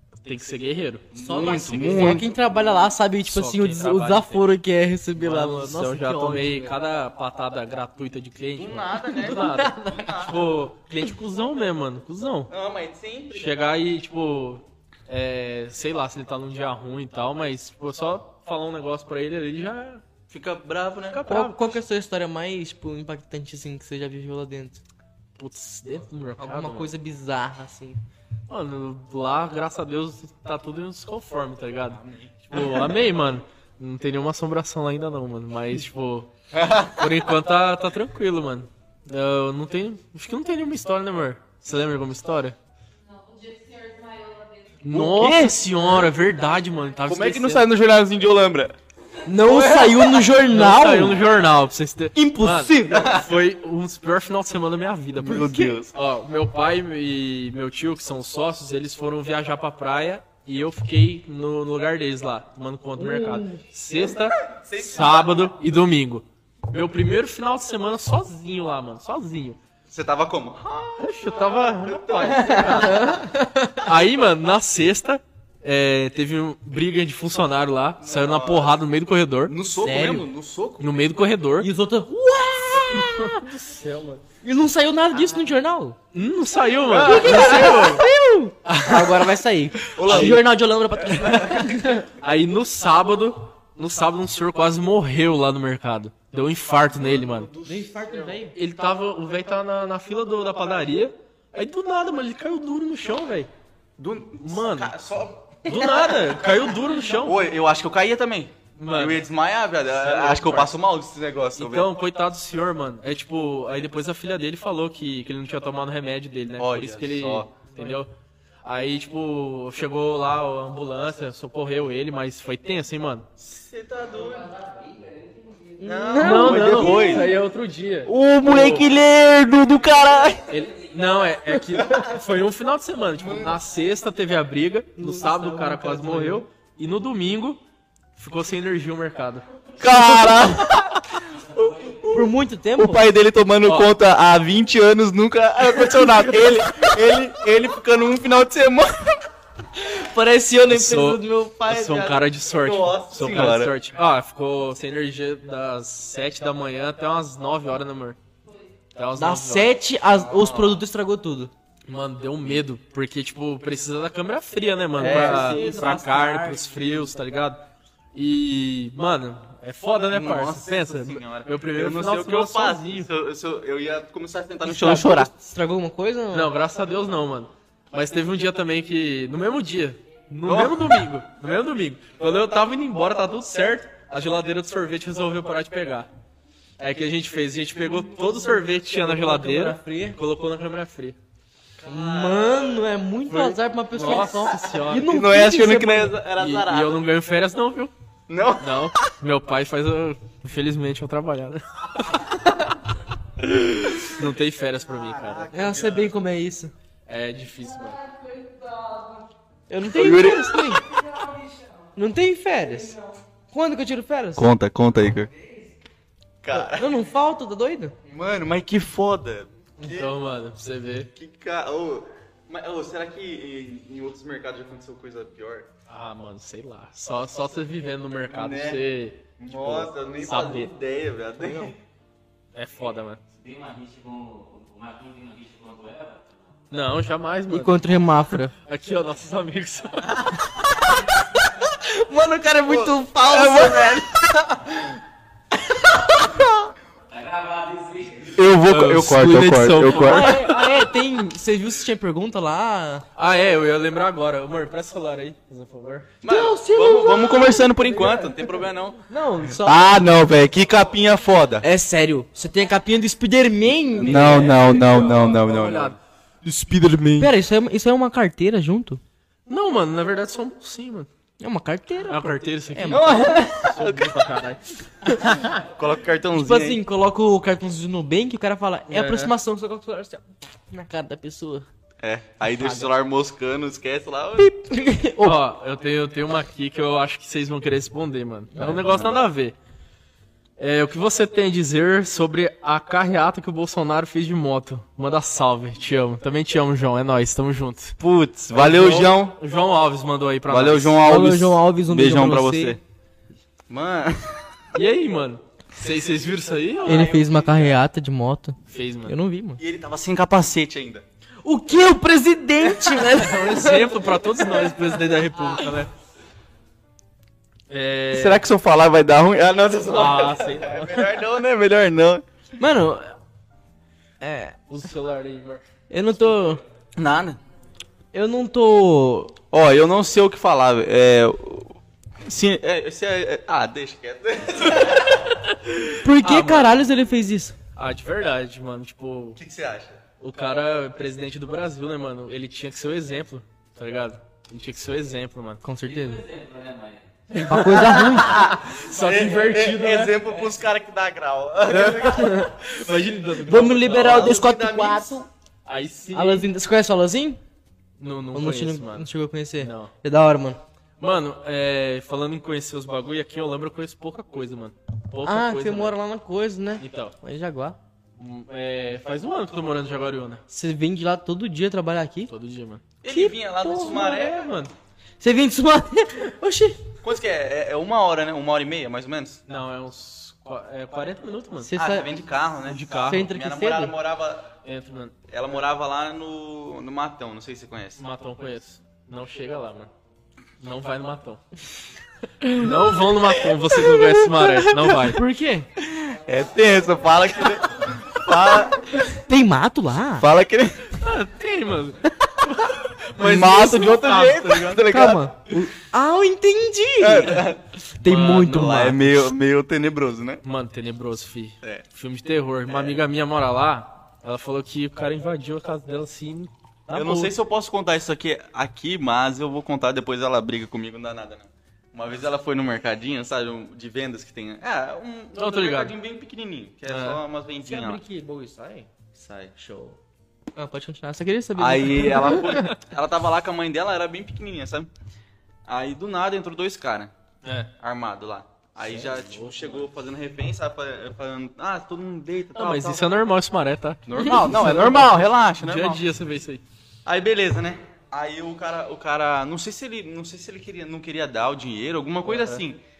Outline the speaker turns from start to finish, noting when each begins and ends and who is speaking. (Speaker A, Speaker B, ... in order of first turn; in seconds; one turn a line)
Speaker A: 0.2-1.1
Speaker B: 1.1-2.5
Speaker C: 1.1-6.8
Speaker A: 1.7-2.2
Speaker A: 3.2-4.5
Speaker A: 5.2-12.5
Speaker B: 8.6-10.5
Speaker C: 9.1-10.1
Speaker B: 12.5-13.5
Speaker A: 13.3-20.0
Speaker B: 20.3-21.3
Speaker A: 21.1-21.8
Speaker C: 21.3-24.8
Speaker A: 25.4-26.9
Speaker C: 26.4-28.0
Speaker A: 28.5-36.3
Speaker B: 31.9-32.8
Speaker B: 36.5-37.2
Speaker A: 36.9-42.5
Speaker D: 43.0-44.9
Speaker A: 44.8-47.7
Speaker B: 44.9-45.6
Speaker B: 47.0-48.7
Speaker C: 49.2-51.2
Speaker B: 49.5-50.0
Speaker A: 49.5-69.6
Speaker C: 52.1-53.1
Speaker B: 52.9-53.3
Speaker B: 55.2-55.9
Speaker C: 55.2-55.8
Speaker C: 63.0-63.6
Speaker B: 64.5-65.5
Speaker B: 69.9-73.2
Speaker A: 71.0-79.5
Speaker C: 72.7-73.8
Speaker B: 78.0-78.8
Speaker B: 79.5-81.1
Speaker C: 79.8-80.3
Speaker A: 80.8-81.7
Speaker C: 81.6-83.5
Speaker A: 82.8-84.2
Speaker C: 84.4-86.0
Speaker A: 86.1-88.0
Speaker B: 86.9-88.0
Speaker C: 87.0-92.1
Speaker A: 88.6-89.3
Speaker A: 89.9-90.4
Speaker B: 90.0-90.5
Speaker B: 91.1-91.7
Speaker A: 92.0-97.5
Speaker B: 96.9-98.3
Speaker C: 97.6-98.5
Speaker A: 98.5-103.5
Speaker B: 104.0-106.4
Speaker A: 104.4-104.9
Speaker A: 105.7-107.4
Speaker B: 107.2-111.9
Speaker A: 108.8-109.2
Speaker A: 109.9-110.7
Speaker A: 111.5-118.1
Speaker B: 116.6-117.5
Speaker A: 118.6-123.3
Speaker B: 123.4-124.5
Speaker E: 124.4-124.8
Speaker C: 125.8-127.3
Speaker B: 125.8-127.3
Speaker A: 126.2-128.9
Speaker B: 128.1-130.5
Speaker C: 128.5-128.8
Speaker A: 130.5-137.6
Speaker B: 133.2-133.6
Speaker C: 135.0-136.4
Speaker A: 138.2-139.4
Speaker B: 139.8-149.2
Speaker E: 141.6-141.9
Speaker C: 142.1-143.1
Speaker A: 143.6-143.9
Speaker C: 149.8-152.1
Speaker A: 150.7-158.2
Speaker B: 151.8-153.8
Speaker A: 158.9-159.7
Speaker C: 159.2-161.5
Speaker B: 160.1-160.8
Speaker A: 161.9-173.1
Speaker B: 165.0-165.8
Speaker C: 165.0-166.8
Speaker B: 170.1-175.3
Speaker C: 174.6-176.5
Speaker A: 176.3-186.1
Speaker B: 180.4-181.1
Speaker A: 186.8-191.2
Speaker C: 188.9-190.2
Speaker B: 191.8-192.9
Speaker C: 191.8-196.1
Speaker A: 193.3-195.1
Speaker B: 194.6-197.0
Speaker A: 196.4-197.9
Speaker B: 198.3-199.1
Speaker A: 198.6-202.7
Speaker A: 203.4-205.5
Speaker B: 205.0-206.2
Speaker C: 205.5-206.7
Speaker A: 207.1-208.0
Speaker D: 208.1-209.2
Speaker C: 209.7-210.8
Speaker B: 209.9-210.8
Speaker C: 211.9-213.0
Speaker C: 213.5-214.5
Speaker B: 214.3-215.3
Speaker B: 216.4-217.0
Speaker C: 216.5-217.9
Speaker B: 218.1-220.1
Speaker A: 219.8-221.1
Speaker B: 221.1-225.7
Speaker A: 225.9-230.7
Speaker B: 228.3-231.8
Speaker A: 232.5-233.2
Speaker E: 233.3-236.6
Speaker A: 236.7-237.8
Speaker C: 237.5-238.5
Speaker A: 238.6-240.4
Speaker C: 241.7-244.2
Speaker B: 242.7-244.6
Speaker C: 245.8-246.5
Speaker E: 247.1-248.5
Speaker B: 248.3-250.4
Speaker A: 248.7-250.9
Speaker C: 249.9-253.1
Speaker A: 253.2-256.1
Speaker B: 256.2-259.0
Speaker C: 256.2-258.5
Speaker C: 259.1-260.0
Speaker B: 259.6-261.6
Speaker C: 261.6-264.7
Speaker B: 264.0-267.3
Speaker A: 264.0-265.9
Speaker C: 267.2-269.0
Speaker A: 269.5-271.1
Speaker C: 271.4-273.3
Speaker A: 272.1-274.6
Speaker B: 272.9-274.3
Speaker B: 275.4-276.8
Speaker C: 276.3-281.7
Speaker A: 278.9-279.3
Speaker B: 282.0-284.5
Speaker C: 282.4-282.9
Speaker C: 284.4-285.4
Speaker A: 285.2-289.5
Speaker B: 288.6-289.2
Speaker A: 290.6-298.0
Speaker B: 298.0-299.4
Speaker A: 298.5-301.0
Speaker B: 300.5-302.8
Speaker C: 301.0-302.8
Speaker B: 303.7-304.5
Speaker A: 304.7-307.1
Speaker B: 306.8-307.7
Speaker C: 306.9-309.6
Speaker A: 308.7-309.1
Speaker B: 309.6-311.0
Speaker C: 311.4-314.7
Speaker A: 312.9-315.9
Speaker A: 317.7-318.4
Speaker B: 318.1-322.2
Speaker A: 319.9-321.1
Speaker C: 322.6-323.1
Speaker C: 324.2-324.6
Speaker A: 324.7-325.6
Speaker C: 325.9-326.6
Speaker B: 326.9-327.4
Speaker C: 328.1-329.3
Speaker B: 329.5-335.3
Speaker A: 335.5-336.8
Speaker C: 336.0-337.6
Speaker A: 337.8-339.4
Speaker B: 339.4-340.0
Speaker A: 340.2-345.6
Speaker C: 345.6-346.2
Speaker E: 345.8-347.1
Speaker A: 347.3-350.2
Speaker C: 347.4-348.5
Speaker B: 347.6-352.5
Speaker A: 351.7-354.4
Speaker C: 351.8-352.3
Speaker C: 353.4-355.3
Speaker B: 353.6-355.2
Speaker A: 355.6-356.5
Speaker C: 356.1-357.4
Speaker A: 358.0-359.1
Speaker C: 358.3-360.6
Speaker A: 359.6-359.9
Speaker A: 361.0-365.9
Speaker C: 365.2-367.8
Speaker A: 366.8-367.1
Speaker A: 368.2-370.4
Speaker C: 370.5-372.3
Speaker A: 372.3-372.8
Speaker B: 373.0-374.5
Speaker C: 373.1-374.0
Speaker A: 373.8-374.7
Speaker C: 375.2-376.8
Speaker B: 377.0-379.4
Speaker A: 379.5-381.7
Speaker C: 381.6-382.1
Speaker B: 381.7-384.5
Speaker A: 382.6-383.3
Speaker C: 383.1-383.9
Speaker A: 384.6-385.1
Speaker B: 385.3-388.0
Speaker A: 388.0-389.9
Speaker A: 390.6-391.4
Speaker A: 392.4-395.2
Speaker C: 395.0-395.7
Speaker B: 396.0-398.9
Speaker C: 399.2-400.3
Speaker B: 400.2-400.9
Speaker A: 401.0-404.8
Speaker B: 403.2-405.2
Speaker C: 404.9-409.2
Speaker B: 407.0-410.4
Speaker A: 410.4-417.3
Speaker B: 412.7-413.0
Speaker B: 416.9-428.0
Speaker A: 425.3-425.9
Speaker A: 426.9-427.2
Speaker C: 427.6-428.9
Speaker B: 429.1-429.5
Speaker C: 429.5-430.0
Speaker C: 430.6-432.6
Speaker B: 431.6-434.9
Speaker B: 435.7-437.1
Speaker A: 437.4-437.7
Speaker B: 437.8-443.1
Speaker A: 439.3-439.8
Speaker A: 442.5-446.6
Speaker B: 444.1-446.0
Speaker B: 447.0-452.8
Speaker A: 452.2-452.6